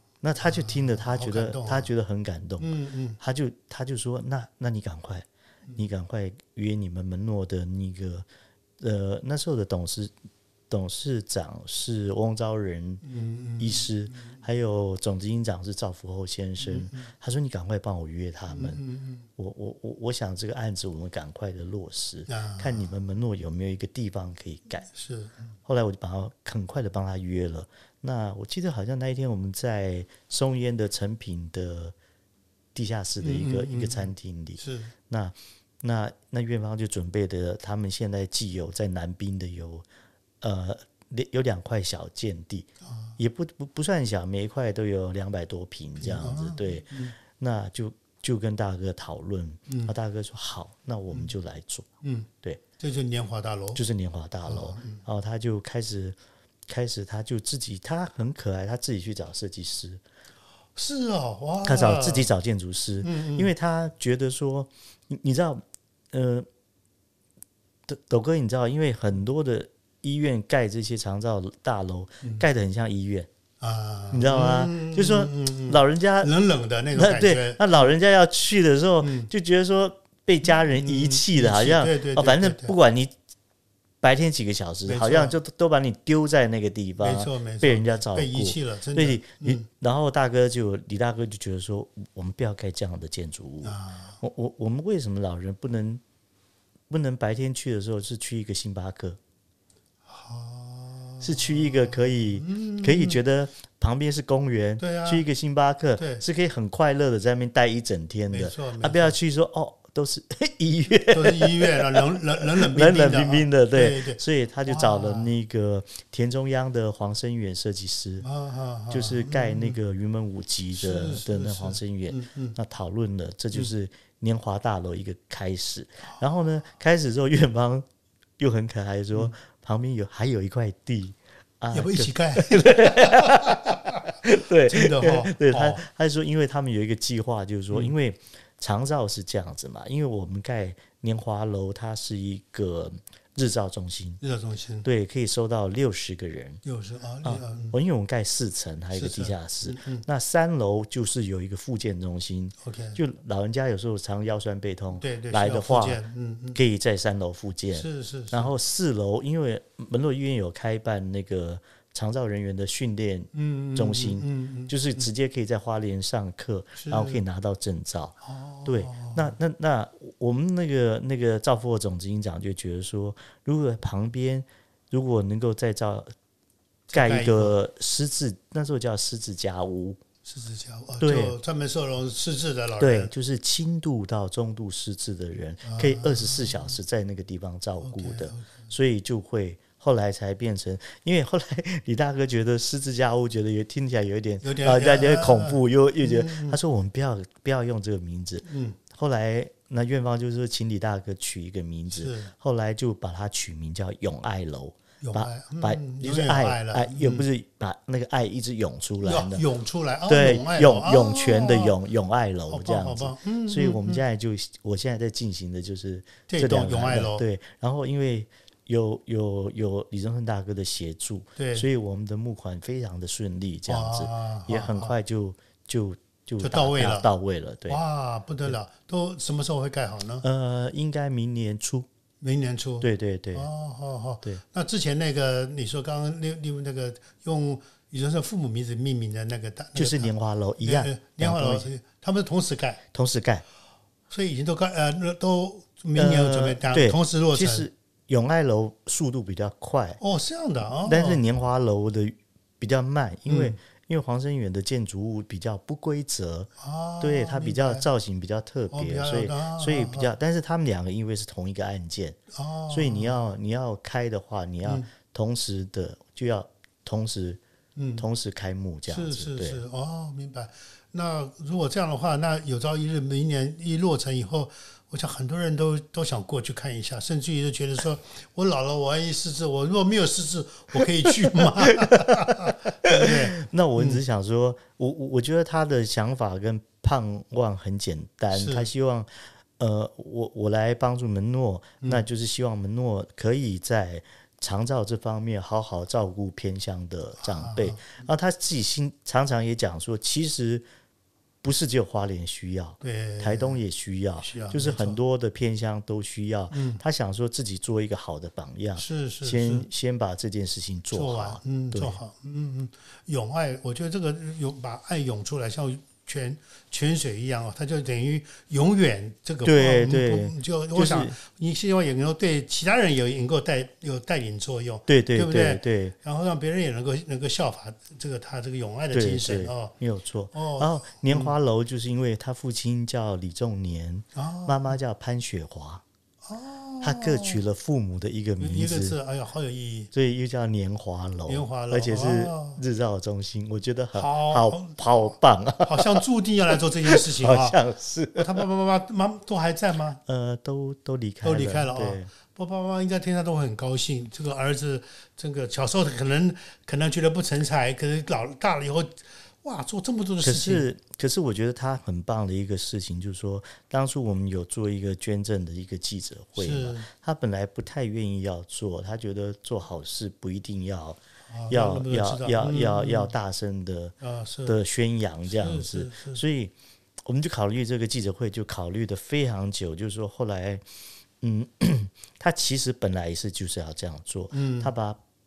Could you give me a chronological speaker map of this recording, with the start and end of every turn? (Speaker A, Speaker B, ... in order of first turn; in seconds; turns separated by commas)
Speaker A: 0.2-8.3, Speaker B: 0.4-1.9, Speaker B: 2.6-3.2, Speaker A: 8.8-10.1, Speaker A: 10.7-13.0, Speaker B: 13.0-14.4, Speaker A: 13.6-18.8, Speaker B: 16.6-17.1, Speaker B: 18.5-19.3, Speaker A: 19.4-24.9, Speaker B: 22.3-22.9, Speaker B: 24.9-25.4, Speaker A: 25.7-31.9, Speaker A: 32.8-39.9, Speaker B: 33.2-34.9, Speaker A: 40.4-51.9, Speaker B: 42.8-43.2, Speaker B: 46.0-47.1, Speaker B: 49.7-49.9, Speaker B: 52.0-52.3, Speaker B: 52.8-53.8, Speaker A: 53.8-56.2, Speaker B: 54.5-55.0, Speaker A: 56.7-60.0, Speaker B: 60.8-62.3, Speaker A: 61.6-66.5, Speaker B: 63.0-63.5, Speaker A: 67.9-73.3, Speaker B: 73.6-77.8, Speaker A: 74.1-76.3, Speaker A: 77.0-83.1, Speaker B: 79.0-79.3, Speaker B: 80.6-82.8, Speaker A: 84.0-96.0, Speaker B: 84.9-85.3, Speaker B: 87.0-89.7, Speaker B: 93.6-94.2, Speaker A: 96.9-99.2, Speaker B: 100.1-103.2, Speaker A: 101.2-118.2, Speaker B: 104.8-105.2, Speaker B: 106.0-106.2, Speaker B: 108.3-109.2, Speaker B: 111.1-115.3, Speaker B: 118.2-119.8, Speaker A: 118.9-127.9, Speaker B: 120.8-122.6, Speaker A: 128.4-144.2, Speaker B: 131.7-135.8, Speaker B: 144.2-144.9, Speaker A: 144.8-146.6, Speaker B: 146.6-147.8, Speaker A: 147.2-156.0, Speaker B: 148.9-150.1, Speaker B: 152.6-153.0, Speaker B: 155.0-156.6, Speaker A: 156.6-176.1, Speaker B: 157.7-158.5, Speaker B: 163.3-164.8, Speaker B: 166.8-167.2, Speaker B: 168.2-169.3, Speaker B: 176.9-177.6, Speaker A: 176.9-180.0, Speaker B: 180.2-183.1, Speaker A: 181.0-181.4, Speaker A: 182.8-209.4, Speaker B: 185.6-186.8, Speaker B: 187.8-188.6, Speaker B: 194.4-196.6, Speaker B: 198.4-198.8, Speaker B: 201.9-202.3, Speaker B: 205.0-207.3, Speaker B: 209.0-211.8, Speaker A: 210.1-227.8, Speaker B: 212.5-214.0, Speaker B: 216.3-217.2, Speaker B: 221.4-221.7, Speaker B: 223.7-224.9, Speaker B: 226.4-227.1, Speaker B: 227.7-230.2, Speaker A: 230.2-231.9, Speaker B: 232.2-240.1, Speaker A: 232.8-233.5, Speaker A: 239.8-241.7, Speaker B: 240.6-242.8, Speaker A: 242.9-243.4, Speaker B: 244.1-247.7, Speaker A: 246.0-250.0, Speaker B: 250.0-251.2, Speaker A: 250.8-262.2, Speaker B: 253.3-253.6, Speaker B: 256.6-257.9, Speaker B: 258.7-260.1, Speaker B: 262.3-263.3, Speaker A: 262.7-267.4, Speaker B: 264.6-264.9, Speaker B: 267.8-268.1, Speaker A: 268.0-269.6, Speaker B: 268.9-284.0, Speaker A: 281.1-300.6, Speaker B: 288.3-288.7, Speaker B: 297.2-297.9, Speaker A: 301.4-312.0, Speaker B: 302.8-303.6, Speaker B: 304.2-305.0, Speaker B: 306.5-306.8, Speaker B: 308.8-309.7, Speaker B: 310.9-329.7, Speaker A: 319.4-321.2, Speaker A: 324.9-325.9, Speaker A: 328.9-335.8, Speaker B: 330.3-331.4, Speaker B: 334.2-334.8, Speaker B: 336.2-337.4, Speaker A: 336.8-339.0, Speaker B: 338.4-339.9, Speaker A: 339.9-346.0, Speaker B: 341.3-342.6, Speaker B: 343.9-344.8, Speaker B: 345.6-347.6, Speaker A: 346.9-348.4, Speaker B: 348.1-350.0, Speaker A: 350.1-352.1, Speaker B: 351.2-360.7, Speaker A: 360.2-373.9, Speaker B: 366.4-366.9, Speaker B: 371.3-373.1, Speaker B: 374.0-374.6, Speaker A: 374.5-376.5, Speaker B: 375.3-376.2, Speaker A: 377.1-380.6, Speaker A: 381.2-385.0, Speaker B: 384.3-384.7